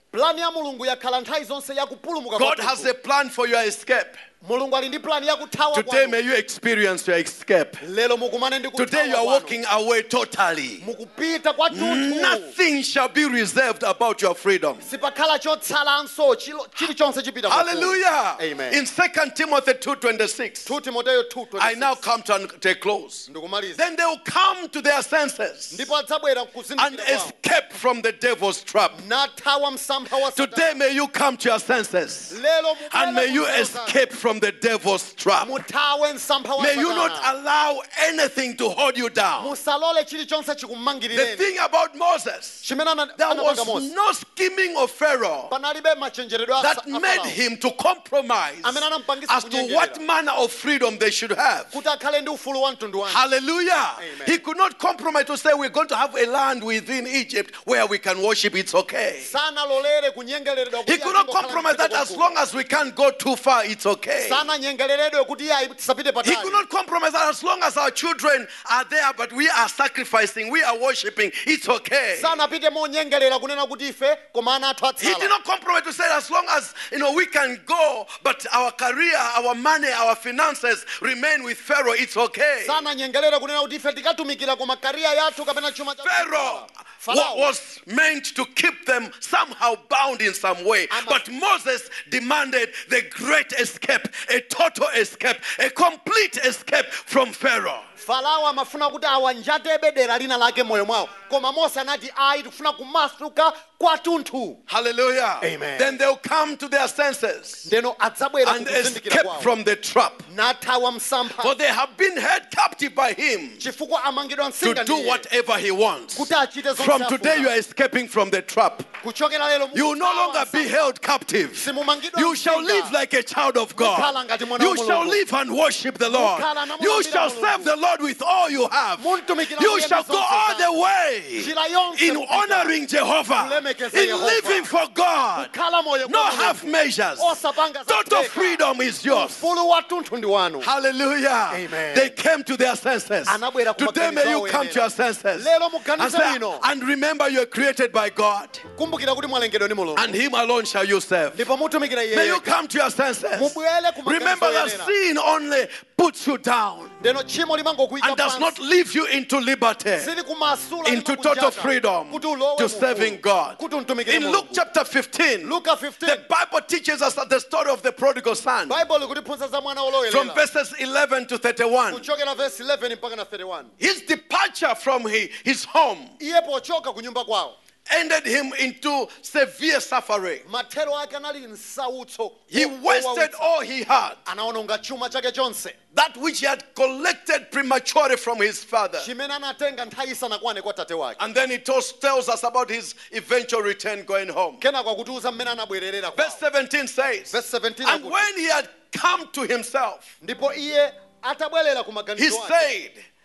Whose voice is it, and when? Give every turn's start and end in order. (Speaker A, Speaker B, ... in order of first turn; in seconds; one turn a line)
Speaker A: 0.1-2.9
Speaker B: 2.4-4.2
Speaker A: 4.4-6.2
Speaker B: 5.7-7.8
Speaker A: 7.8-9.6
Speaker B: 8.8-10.8
Speaker A: 10.8-12.6
Speaker B: 11.7-14.9
Speaker A: 14.8-18.8
Speaker B: 17.5-20.7
Speaker A: 20.6-22.0
Speaker B: 21.6-25.9
Speaker A: 23.3-23.8
Speaker A: 25.7-27.4
Speaker B: 26.8-29.0
Speaker A: 28.9-30.8
Speaker B: 30.3-32.4
Speaker A: 32.3-34.0
Speaker B: 32.9-35.6
Speaker A: 35.4-37.3
Speaker B: 36.6-39.5
Speaker A: 39.4-41.5
Speaker B: 41.1-42.6
Speaker A: 42.6-43.9
Speaker B: 43.2-45.5
Speaker A: 45.5-47.4
Speaker B: 46.6-51.7
Speaker A: 48.6-50.0
Speaker A: 51.7-53.2
Speaker B: 53.1-59.3
Speaker A: 54.0-54.4
Speaker A: 59.2-62.3
Speaker B: 60.8-64.4
Speaker A: 64.2-66.6
Speaker B: 66.2-72.4
Speaker A: 72.2-75.3
Speaker B: 75.0-82.8
Speaker A: 82.6-87.5
Speaker B: 86.0-97.8
Speaker A: 90.9-91.2
Speaker A: 98.0-104.6
Speaker B: 104.7-107.7
Speaker A: 105.4-106.0
Speaker A: 107.6-109.5
Speaker B: 108.4-110.3
Speaker A: 110.3-111.5
Speaker B: 111.4-113.6
Speaker A: 113.6-115.2
Speaker B: 114.6-118.9
Speaker A: 116.1-117.5
Speaker A: 119.0-120.9
Speaker B: 119.7-135.5
Speaker A: 121.5-123.0
Speaker A: 123.8-125.2
Speaker A: 126.1-127.7
Speaker A: 129.0-130.7
Speaker A: 131.3-132.7
Speaker A: 133.3-134.7
Speaker A: 135.3-140.7
Speaker B: 136.0-137.3
Speaker B: 137.9-139.4
Speaker B: 140.6-148.6
Speaker A: 141.5-142.2
Speaker A: 143.2-146.6
Speaker A: 148.7-150.1
Speaker B: 149.9-151.4
Speaker A: 151.3-152.6
Speaker B: 152.1-156.9
Speaker A: 153.3-154.9
Speaker A: 157.0-158.6
Speaker B: 158.0-160.1
Speaker A: 160.0-164.6
Speaker B: 160.8-168.8
Speaker A: 165.4-166.2
Speaker A: 168.7-170.4
Speaker B: 170.1-172.1
Speaker A: 171.9-173.7
Speaker B: 173.8-176.1
Speaker A: 176.2-177.6
Speaker B: 177.9-180.4
Speaker A: 180.4-183.5
Speaker B: 182.5-184.2
Speaker A: 184.2-185.8
Speaker B: 185.9-189.1
Speaker A: 189.0-191.2
Speaker B: 191.2-194.6
Speaker A: 194.6-196.4
Speaker B: 196.2-200.1
Speaker A: 197.3-198.3
Speaker A: 200.2-202.7
Speaker B: 202.2-203.0